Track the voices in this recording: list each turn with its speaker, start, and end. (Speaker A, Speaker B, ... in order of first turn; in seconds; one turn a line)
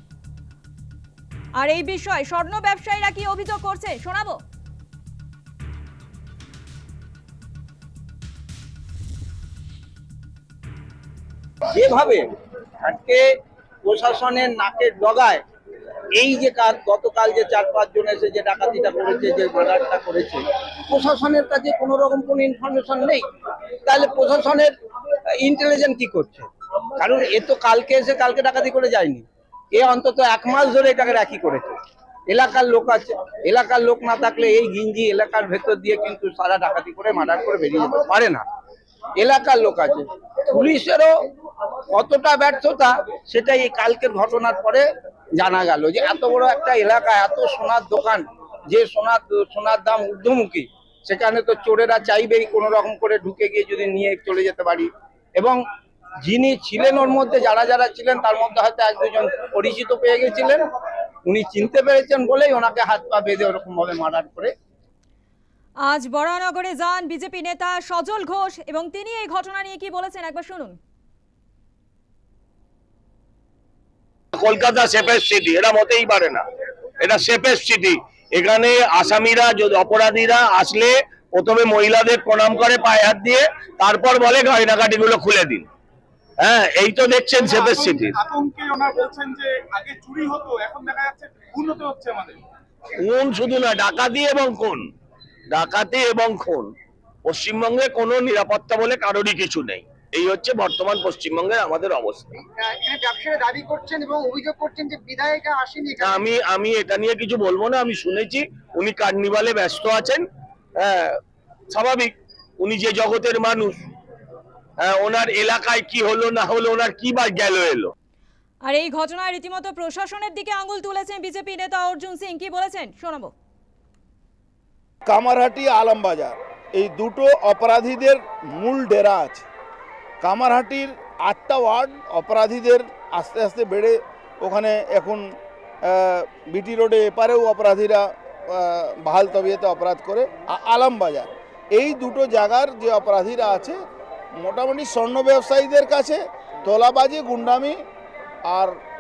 Speaker A: 1.6-4.4
Speaker B: 11.7-12.3
Speaker B: 12.8-13.2
Speaker B: 13.8-15.4
Speaker B: 16.2-23.2
Speaker B: 23.9-24.7
Speaker B: 25.4-31.8
Speaker B: 32.3-38.5
Speaker B: 39.2-41.2
Speaker B: 41.9-44.9
Speaker B: 45.4-55.6
Speaker B: 56.2-60.6
Speaker B: 61.3-64.5
Speaker A: 65.8-70.8
Speaker C: 74.3-76.4
Speaker C: 77.0-85.7
Speaker C: 86.4-88.2
Speaker D: 87.4-92.4
Speaker C: 93.0-94.8
Speaker C: 95.5-96.7
Speaker C: 97.2-102.3
Speaker E: 102.7-106.1
Speaker C: 106.0-110.2
Speaker C: 110.8-111.2
Speaker C: 111.7-113.9
Speaker C: 114.8-117.9
Speaker A: 118.6-123.3
Speaker F: 125.1-129.5
Speaker F: 130.2-135.2
Speaker F: 135.8-143.8
Speaker F: 144.4-147.8
Speaker F: 148.5-148.8